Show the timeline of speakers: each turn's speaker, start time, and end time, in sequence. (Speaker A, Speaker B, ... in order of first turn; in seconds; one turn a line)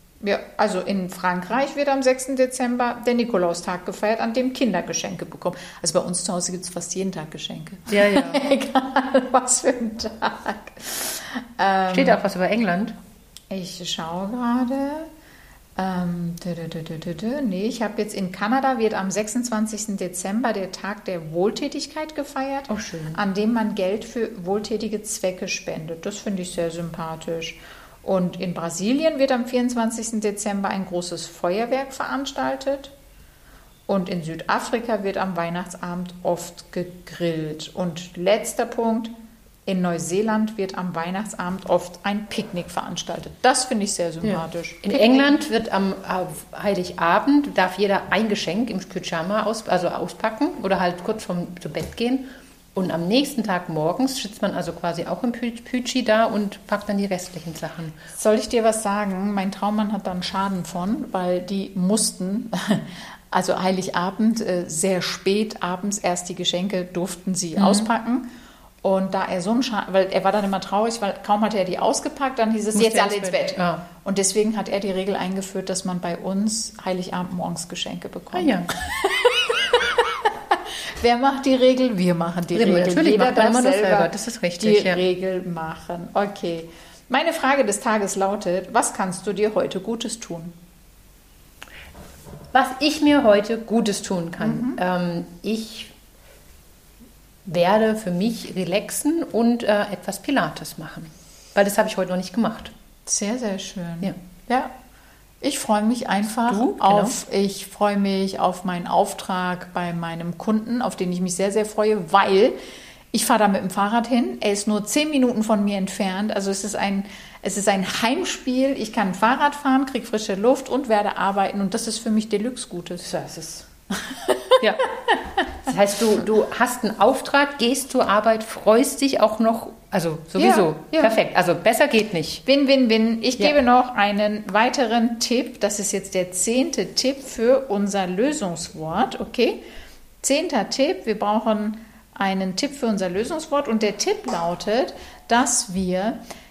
Speaker A: 0.2-12.2
Speaker B: 7.9-8.4
Speaker B: 11.9-12.9
Speaker A: 13.5-15.1
Speaker A: 15.8-32.9
Speaker B: 22.7-23.1
Speaker A: 33.9-39.1
Speaker A: 39.6-45.4
Speaker B: 44.2-57.9
Speaker A: 58.1-68.3
Speaker B: 67.6-67.9
Speaker A: 68.8-80.0
Speaker B: 72.8-73.8
Speaker B: 78.3-78.6
Speaker A: 81.0-90.6
Speaker B: 82.5-85.0
Speaker B: 92.5-95.9
Speaker A: 94.4-94.8
Speaker B: 97.5-102.7
Speaker A: 103.1-104.7
Speaker A: 105.4-112.6
Speaker B: 106.5-107.1
Speaker A: 113.1-123.1
Speaker B: 123.1-123.6
Speaker A: 124.1-124.6
Speaker B: 125.7-132.4
Speaker A: 130.4-131.2
Speaker A: 132.4-139.6
Speaker A: 140.2-146.2